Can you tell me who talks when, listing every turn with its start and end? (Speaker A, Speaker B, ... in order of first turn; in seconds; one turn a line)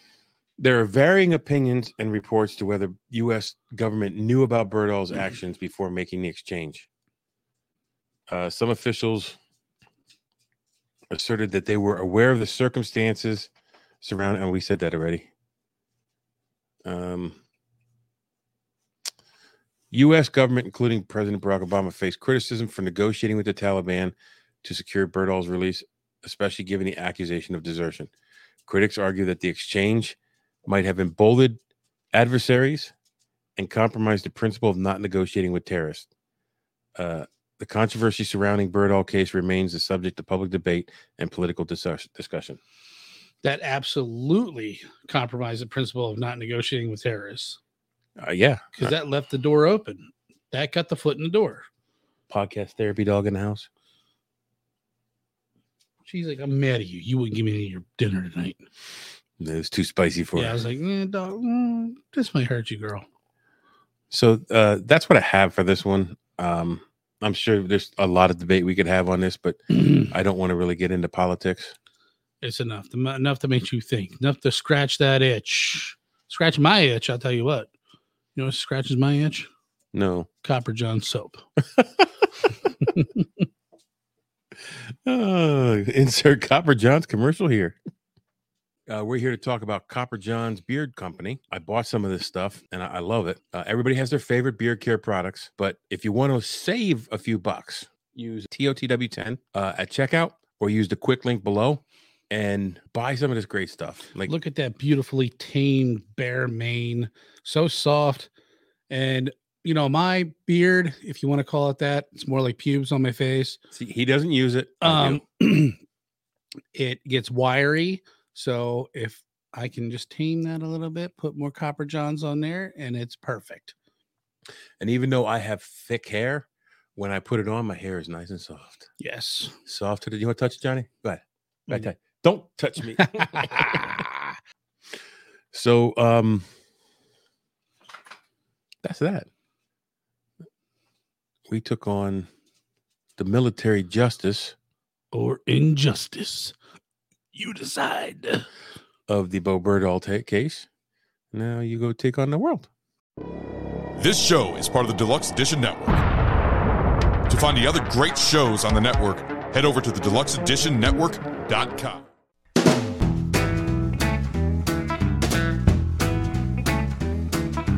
Speaker A: 0.6-6.9
Speaker A: 8.3-9.4
Speaker A: 11.1-15.3
Speaker A: 16.9-17.4
Speaker A: 19.9-28.1
Speaker A: 28.7-31.6
Speaker A: 32.1-32.9
Speaker A: 33.6-36.1
Speaker A: 37.0-42.6
Speaker B: 43.4-47.6
Speaker A: 48.2-48.9
Speaker B: 48.8-51.7
Speaker A: 52.3-53.7
Speaker B: 56.0-58.6
Speaker A: 59.4-60.6
Speaker B: 60.4-63.0
Speaker A: 64.1-71.7
Speaker B: 72.4-77.7
Speaker B: 78.3-79.5
Speaker A: 79.9-80.3
Speaker B: 80.4-81.4
Speaker A: 81.8-82.0
Speaker A: 85.1-87.8
Speaker A: 88.9-104.3
Speaker B: 104.2-108.3
Speaker B: 108.9-113.6
Speaker A: 113.8-115.2
Speaker B: 114.8-115.8
Speaker B: 116.8-123.8
Speaker A: 124.8-128.9
Speaker B: 129.0-129.5
Speaker A: 129.7-134.3
Speaker B: 133.0-133.9
Speaker A: 135.5-136.5
Speaker A: 138.8-139.3
Speaker A: 141.5-142.3
Speaker A: 143.2-144.6
Speaker B: 145.1-146.6
Speaker B: 147.3-148.5
Speaker A: 149.1-150.7
Speaker A: 151.3-152.7
Speaker C: 154.0-156.0
Speaker C: 157.3-162.0